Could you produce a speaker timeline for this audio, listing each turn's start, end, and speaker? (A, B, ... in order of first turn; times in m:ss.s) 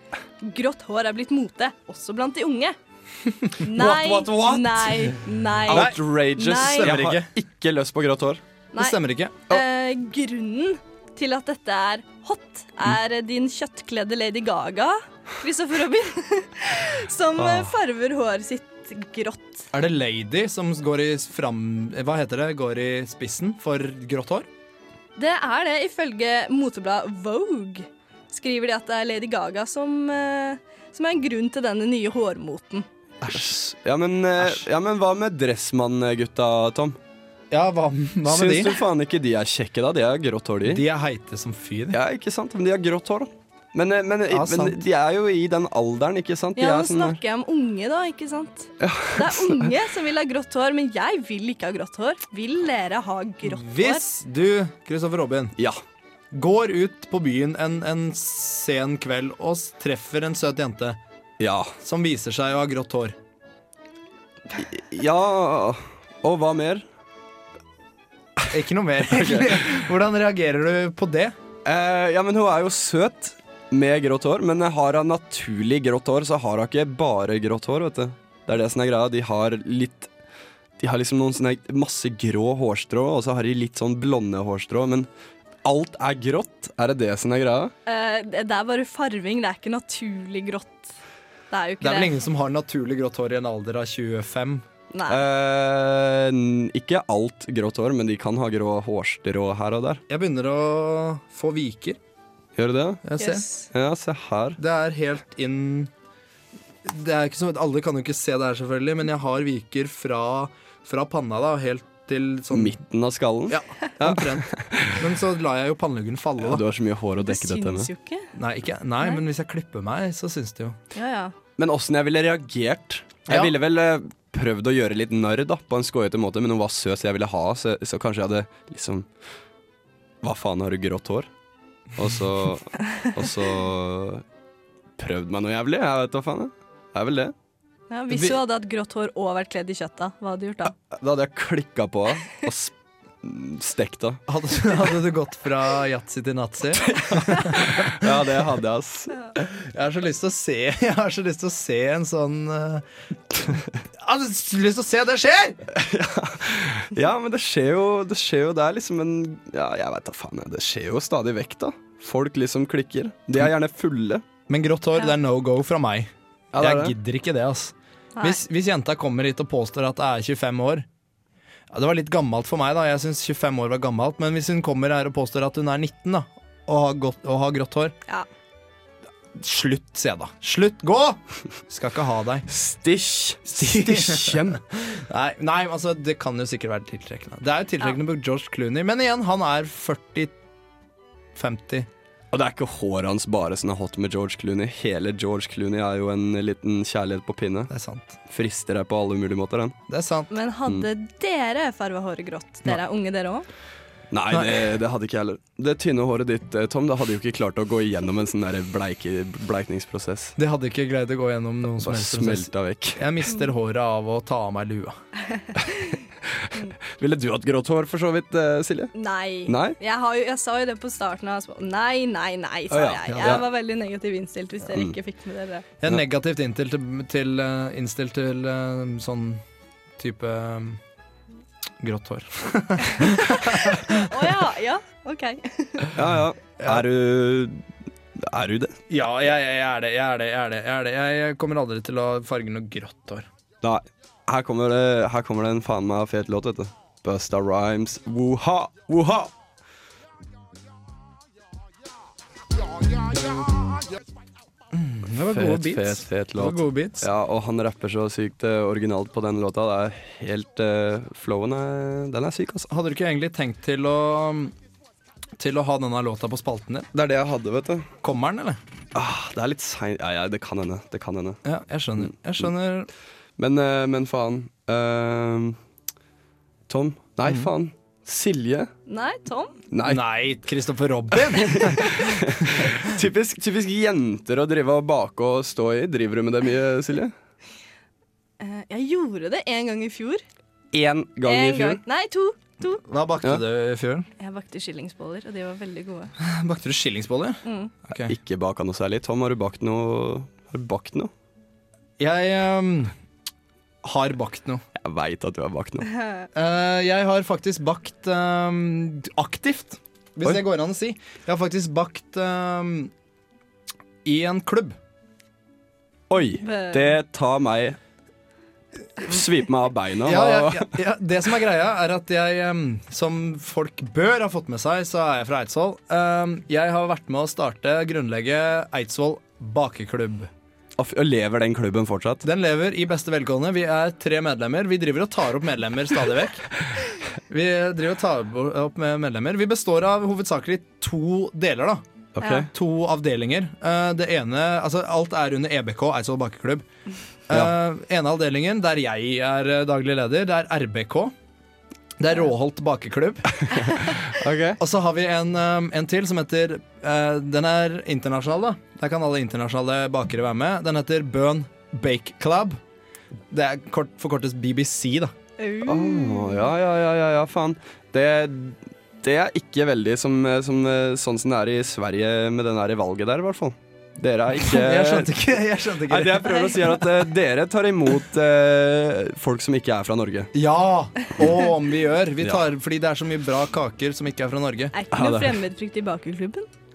0:00.4-0:02.8 A
0:03.4-0:05.0 B
0:03.6-0:07.0 A
0:05.7-0:08.4 C
0:05.7-0:07.3 B
0:08.7-0:19.6 A
0:08.8-0:09.4 B
0:17.4-0:17.8 C
0:19.7-0:24.5 B
0:25.2-0:32.8 A
0:33.2-0:33.6 B
0:33.3-0:37.0 C
0:37.5-0:38.8 B
0:38.2-0:40.8 C
0:40.6-0:42.0 B
0:41.9-0:47.2 C
0:44.3-0:44.8 B
0:46.6-0:54.0 A
0:48.8-0:49.7 C
0:53.4-0:55.5 B
0:56.3-1:01.0 B
1:01.4-1:01.7 C
1:01.8-1:03.1 B
1:04.5-1:06.9 C
1:08.5-1:11.3 B
1:09.1-1:09.7 C
1:11.6-1:20.1 C
1:20.8-1:25.1 C
1:25.6-1:27.7 C
1:27.8-1:30.9 A
1:31.5-1:32.2 A
1:31.8-1:34.6 B
1:34.9-1:35.2 A
1:35.1-1:40.0 C
1:40.1-1:42.0 B
1:42.6-1:43.0 C
1:43.0-1:43.4 B
1:43.2-1:43.7 A
1:43.7-1:44.6 C
1:44.6-1:45.9 B
1:46.8-1:52.8 B
1:52.5-1:55.0 C
1:53.5-1:56.6 B
1:56.4-1:57.9 C
1:57.2-1:58.3 A
1:58.3-2:00.8 B
2:00.9-2:01.3 A
2:01.6-2:09.1 C
2:03.3-2:03.5 B
2:10.2-2:11.3 C
2:11.9-2:14.2 C
2:15.0-2:17.3 C
2:17.9-2:20.7 A
2:18.1-2:18.4 B
2:20.7-2:24.2 C
2:24.3-2:28.0 B
2:26.7-2:29.2 C
2:29.4-2:32.8 B
2:33.4-2:35.6 B
2:35.7-2:44.2 C
2:44.5-2:50.8 B
2:46.5-2:46.9 C
2:51.7-2:57.9 B
2:59.4-3:02.4 B
3:02.5-3:04.6 C
3:03.5-3:10.3 B
3:11.3-3:11.9 B
3:12.3-3:17.7 C
3:17.7-3:18.2 B
3:18.3-3:19.8 C
3:19.9-3:20.3 B
3:20.3-3:23.5 A
3:24.1-3:30.4 C
3:24.3-3:24.6 B
3:30.4-3:35.0 B
3:31.8-3:33.0 C
3:35.3-3:36.0 A
3:36.2-3:38.9 C
3:38.9-3:45.6 A
3:39.4-3:39.8 C
3:42.7-3:43.4 C
3:43.1-3:43.4 B
3:44.7-3:45.0 C
3:45.8-3:49.4 B
3:50.0-3:50.8 B
3:51.8-3:54.0 B
3:53.0-3:55.9 A
3:56.0-3:57.6 C
3:58.2-3:58.8 C
3:58.9-4:03.2 B
4:03.6-4:09.3 C
4:14.7-4:17.0 B
4:15.3-4:22.7 C
4:22.7-4:24.5 B
4:25.4-4:26.9 B
4:26.9-4:27.9 C
4:28.0-4:28.6 B
4:28.9-4:31.4 C
4:31.4-4:32.9 B
4:33.4-4:35.6 C
4:36.7-4:38.7 C
4:38.9-4:39.6 A
4:39.7-4:40.0 C
4:39.8-4:42.8 B
4:41.3-4:47.1 C
4:48.4-4:50.2 A
4:50.7-4:51.8 C
4:51.2-4:52.8 A
4:52.8-4:54.1 B
4:54.2-4:56.1 A
4:56.2-4:58.1 B
4:57.4-4:57.7 A
4:58.0-5:01.1 C
5:02.0-5:02.9 B
5:03.8-5:04.6 B
5:04.8-5:05.9 C
5:06.3-5:12.9 B
5:14.0-5:14.8 B
5:16.1-5:17.8 C
5:16.4-5:16.9 A
5:19.0-5:20.7 C
5:20.0-5:30.3 B
5:30.8-5:32.2 C
5:32.2-5:36.5 B
5:37.3-5:41.8 B
5:42.1-5:42.5 C
5:42.2-5:42.5 A
5:42.5-5:46.6 B
5:47.3-5:51.1 B
5:52.0-5:53.5 B
5:53.5-5:54.6 C
5:54.6-6:02.6 B
6:03.3-6:05.1 B
6:05.4-6:06.5 A
6:05.6-6:20.3 C
6:14.4-6:16.6 B
6:20.3-6:24.7 B
6:21.2-6:21.5 C
6:22.2-6:22.4 C
6:24.7-6:26.5 A
6:24.9-6:25.4 C